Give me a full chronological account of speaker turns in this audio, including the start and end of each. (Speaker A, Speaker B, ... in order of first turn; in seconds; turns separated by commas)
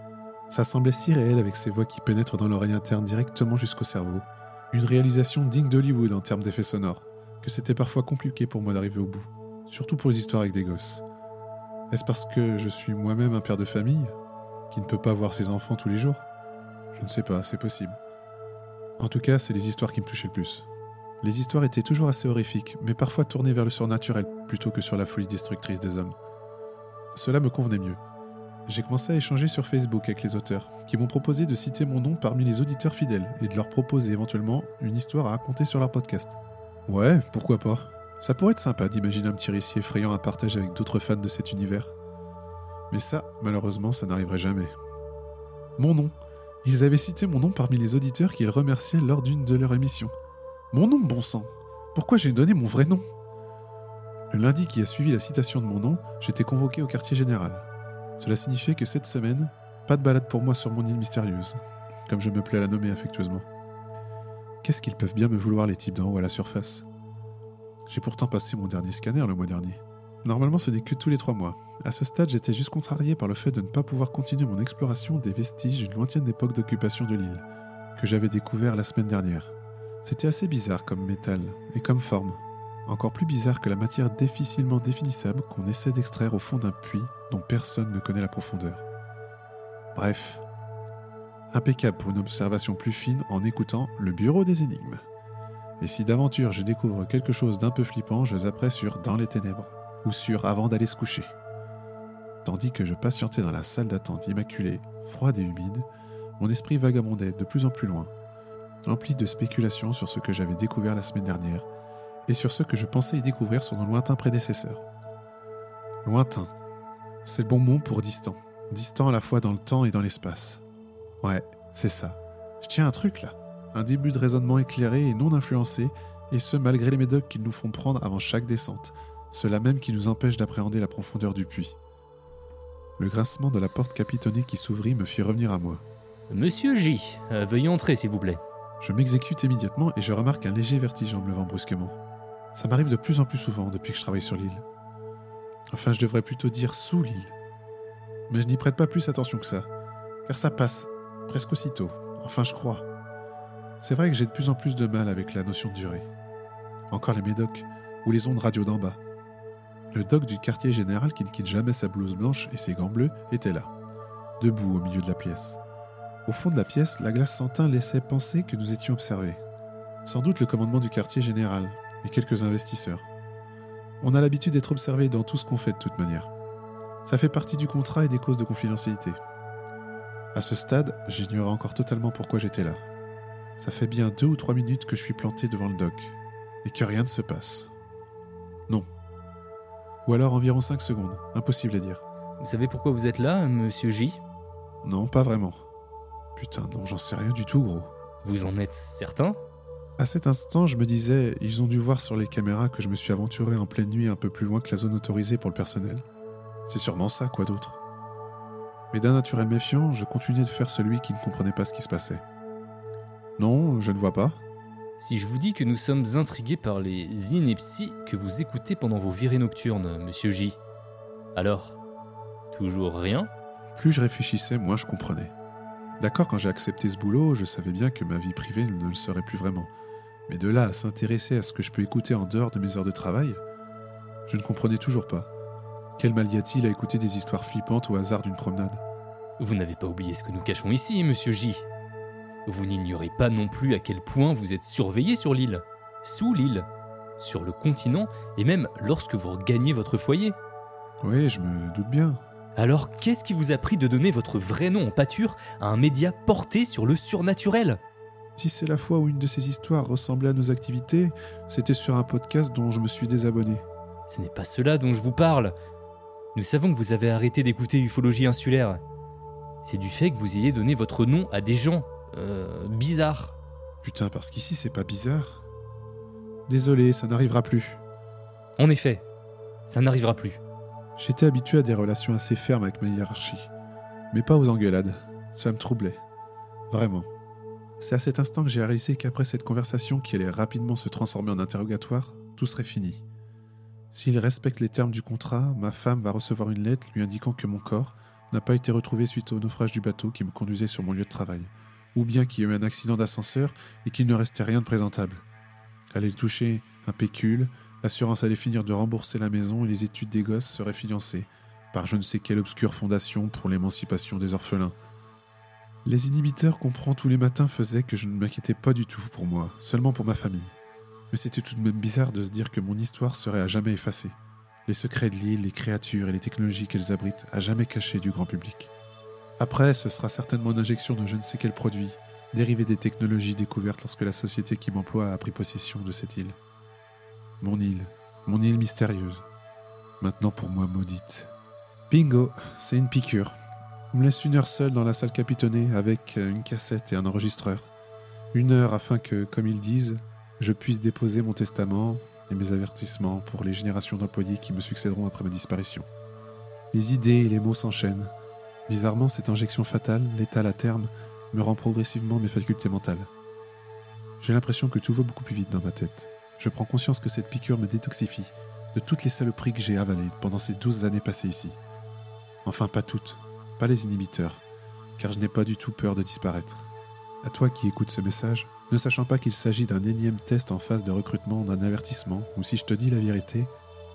Speaker A: 0.5-11.0, Speaker A: 11.9-14.2, Speaker A: 14.7-16.3, Speaker A: 16.9-18.0, Speaker A: 19.0-20.7, Speaker A: 21.2-26.1, Speaker A: 27.1-28.0, Speaker A: 28.7-41.9, Speaker A: 42.9-44.7, Speaker A: 45.8-50.1, Speaker A: 50.7-53.0, Speaker A: 54.3-57.7, Speaker A: 58.2-63.5, Speaker A: 64.6-66.8, Speaker A: 67.9-77.4, Speaker A: 78.0-88.8, Speaker A: 89.9-90.4, Speaker A: 91.5-95.0, Speaker A: 95.8-101.3, Speaker A: 102.4-105.9, Speaker A: 106.4-108.1, Speaker A: 108.8-111.7, Speaker A: 112.2-114.8, Speaker A: 116.0-116.5, Speaker A: 117.2-120.6, Speaker A: 121.2-131.8, Speaker A: 133.0-135.8, Speaker B: 136.3-138.4, Speaker A: 138.8-142.0, Speaker A: 142.5-144.6, Speaker A: 145.7-147.3, Speaker A: 148.3-149.7, Speaker A: 150.2-152.8, Speaker A: 153.8-156.1, Speaker A: 156.9-159.0, Speaker A: 159.9-163.7, Speaker A: 164.4-165.6, Speaker A: 166.2-169.4, Speaker A: 170.0-173.1, Speaker A: 174.0-176.3, Speaker A: 177.0-179.2, Speaker A: 180.3-182.8, Speaker A: 183.6-187.7, Speaker A: 190.0-192.0, Speaker B: 192.4-194.2, Speaker A: 194.8-195.7, Speaker A: 196.3-197.9, Speaker B: 198.2-199.4, Speaker A: 200.0-206.0, Speaker A: 206.7-207.8, Speaker A: 208.9-212.2, Speaker A: 213.4-214.4, Speaker B: 215.0-220.6, Speaker B: 221.3-221.8, Speaker B: 222.5-223.3, Speaker A: 223.7-225.3, Speaker A: 226.0-229.7, Speaker A: 230.3-233.4, Speaker A: 234.3-235.3, Speaker A: 236.0-238.8, Speaker B: 239.4-241.6, Speaker B: 242.4-246.7, Speaker B: 247.2-250.4, Speaker A: 251.0-252.2, Speaker B: 252.6-257.8, Speaker A: 258.4-263.6, Speaker B: 264.1-265.6, Speaker B: 266.3-268.8, Speaker B: 269.6-273.4, Speaker A: 273.8-275.4, Speaker A: 276.5-277.8, Speaker B: 278.6-279.0, Speaker B: 279.7-280.4, Speaker A: 281.0-283.5, Speaker A: 284.1-286.0, Speaker A: 286.7-287.1, Speaker A: 287.8-293.0, Speaker A: 293.9-305.2, Speaker A: 305.9-314.8, Speaker A: 315.8-320.5, Speaker A: 321.1-328.7, Speaker A: 329.4-336.4, Speaker A: 337.4-339.2, Speaker A: 340.0-341.3, Speaker A: 341.9-343.4, Speaker A: 343.9-347.7, Speaker A: 348.3-355.9, Speaker A: 356.7-358.1, Speaker A: 358.7-363.1, Speaker A: 364.2-371.6, Speaker A: 372.4-374.4, Speaker A: 375.0-376.7, Speaker A: 377.2-383.5